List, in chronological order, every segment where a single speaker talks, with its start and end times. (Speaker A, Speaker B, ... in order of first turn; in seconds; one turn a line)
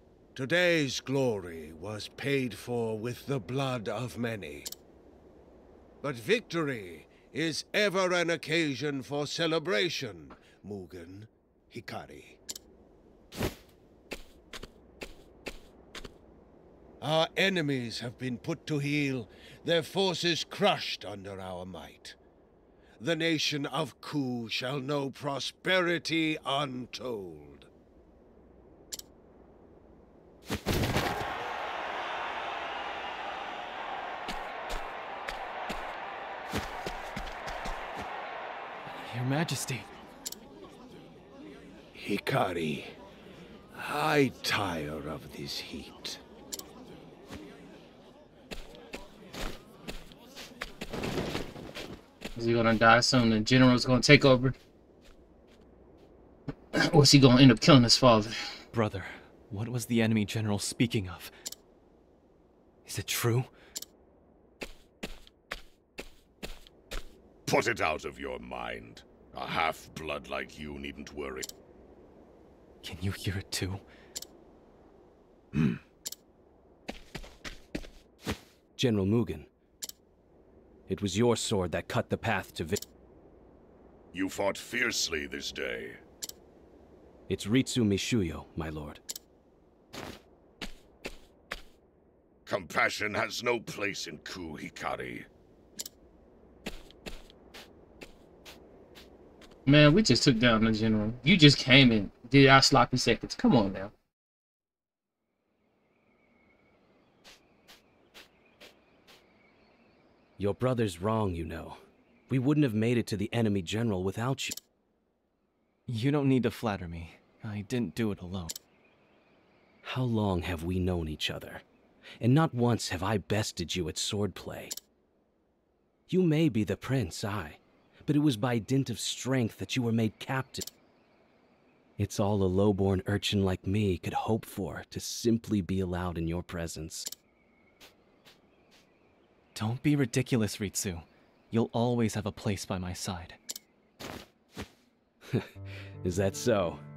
Speaker A: 0.3-4.7
Speaker A: 6.0-12.4
Speaker A: 17.0-22.1
Speaker A: 23.0-27.7
Speaker B: 38.9-39.9
Speaker A: 41.9-43.0
Speaker A: 43.7-46.2
Speaker C: 52.4-54.5
Speaker C: 56.7-58.3
Speaker B: 58.7-61.3
Speaker B: 62.9-63.5
Speaker D: 67.5-71.5
Speaker B: 72.8-73.8
Speaker E: 78.8-79.5
Speaker E: 80.9-82.8
Speaker D: 84.1-86.0
Speaker E: 87.3-89.0
Speaker D: 92.5-95.3
Speaker C: 99.7-103.9
Speaker E: 110.4-114.5
Speaker B: 115.9-118.5
Speaker E: 119.8-121.6
Speaker E: 122.2-124.7
Speaker E: 126.1-130.6
Speaker E: 132.0-137.1
Speaker B: 139.5-143.4
Speaker E: 146.0-146.8